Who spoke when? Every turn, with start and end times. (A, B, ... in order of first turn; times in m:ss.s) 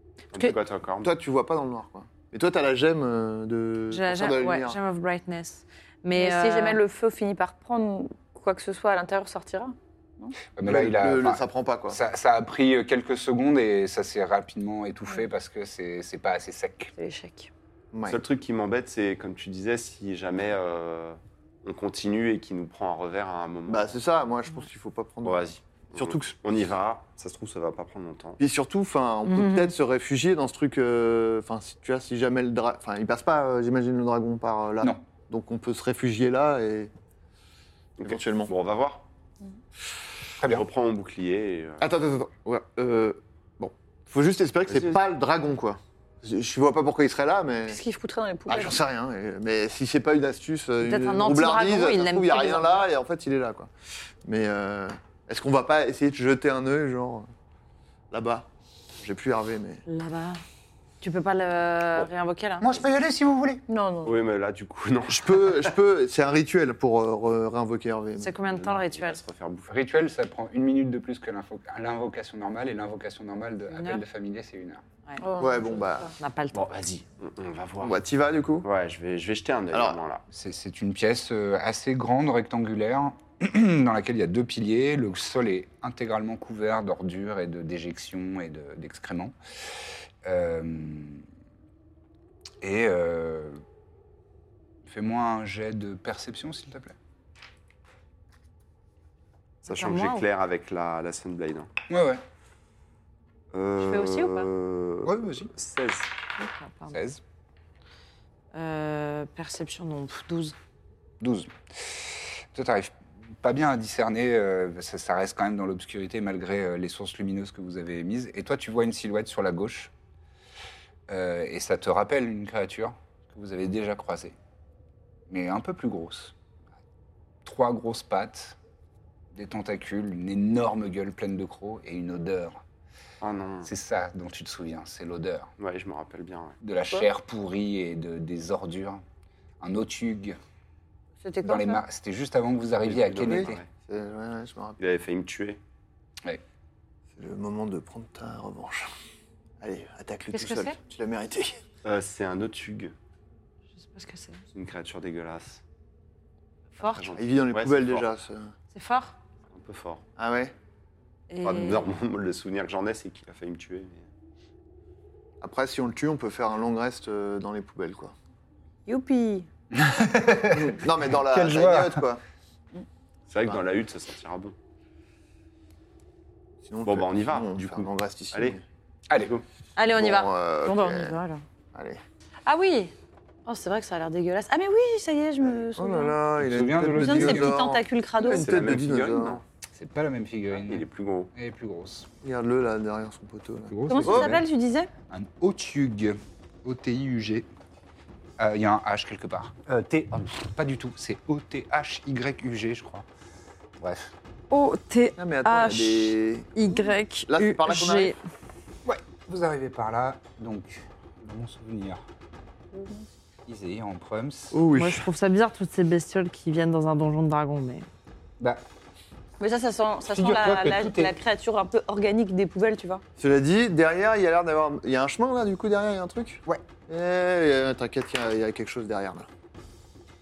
0:00.3-0:01.1 A
0:01.0-0:04.8 B
0:03.9-0:06.8 C
0:06.1-0:10.4 D
0:10.6-0:16.9 E
0:10.6-0:12.0 B
0:17.0-0:17.5 D
0:17.9-0:18.2 B
0:18.1-0:24.0 A
0:23.7-0:26.3 B
0:25.2-0:28.4 A
0:28.4-0:36.9 B
0:29.3-0:29.7 C
0:38.0-0:39.0 A
0:38.0-0:38.5 B
0:40.4-0:40.7 E
0:40.4-0:41.8 A
0:41.8-0:47.8 B
0:44.7-0:45.0 A
0:47.7-0:48.8 D
0:48.5-0:53.7 B
0:50.8-0:52.8 C
0:54.2-0:57.3 B
0:58.1-0:58.5 B
0:59.0-0:59.8 B
0:59.9-1:00.4 C
1:01.0-1:02.8 C
1:02.6-1:03.6 E
1:03.7-1:04.2 D
1:04.0-1:05.7 A
1:05.1-1:08.4 B
1:08.2-1:09.2 C
1:08.4-1:09.7 A
1:09.7-1:14.8 E
1:13.7-1:14.0 C
1:15.2-1:16.1 D
1:15.4-1:16.1 B
1:16.2-1:16.7 C
1:16.5-1:18.0 A
1:17.8-1:18.7 B
1:18.6-1:20.2 A
1:19.7-1:20.0 B
1:20.3-1:31.2 E
1:32.6-1:33.6 E
1:34.9-1:37.0 E
1:39.7-1:40.2 C
1:39.7-1:41.7 A
1:41.9-1:42.2 E
1:43.5-1:46.1 A
1:43.8-1:44.5 C
1:45.0-1:45.5 E
1:46.4-1:47.0 C
1:46.9-1:47.2 E
1:48.5-1:50.6 C
1:51.2-1:59.9 E
2:01.1-2:04.4 E
2:05.3-2:06.4 E
2:07.4-2:08.6 E
2:09.3-2:12.6 E
2:13.2-2:13.7 A
2:13.6-2:15.5 E
2:15.6-2:16.6 A
2:16.6-2:19.0 E
2:19.6-2:20.4 E
2:21.2-2:21.8 D
2:21.4-2:23.6 E
2:22.9-2:23.7 A
2:23.2-2:24.8 B
2:24.8-2:25.6 A
2:27.2-2:28.9 B
2:29.6-2:31.6 B
2:30.3-2:30.8 C
2:31.8-2:33.0 A
2:33.8-2:34.4 C
2:34.6-2:35.6 A
2:36.8-2:37.1 C
2:36.8-2:38.1 A
2:37.2-2:38.5 B
2:38.7-2:39.2 C
2:39.5-2:40.0 A
2:40.2-2:40.5 B
2:41.3-2:41.9 C
2:41.4-2:44.1 A
2:45.4-2:48.1 B
2:48.9-2:49.5 D
2:49.7-2:52.0 E
2:50.5-2:52.2 B
2:53.3-2:54.6 A
2:56.6-2:58.6 B
2:56.8-2:58.6 A
2:59.1-2:59.4 E
2:59.2-2:59.4 A
2:59.8-3:00.3 C
3:00.0-3:01.2 B
3:00.6-3:01.4 D
3:01.7-3:02.0 B
3:02.5-3:02.9 C
3:03.4-3:06.2 D
3:05.7-3:09.4 B
3:06.4-3:07.7 E
3:06.9-3:08.6 D
3:08.2-3:09.4 A
3:09.7-3:12.1 E
3:10.6-3:11.3 A
3:12.2-3:14.4 B
3:13.7-3:14.4 E
3:13.9-3:14.9 D
3:15.1-3:17.5 E
3:18.4-3:23.1 E
3:23.8-3:24.1 E
3:24.5-3:28.2 C
3:25.2-3:28.2 B
3:28.8-3:32.0 E
3:32.7-3:33.1 D
3:33.5-3:34.6 E
3:34.5-3:35.1 B
3:34.7-3:37.9 C
3:39.4-3:43.0 D
3:40.1-3:41.1 E
3:43.2-3:49.3 B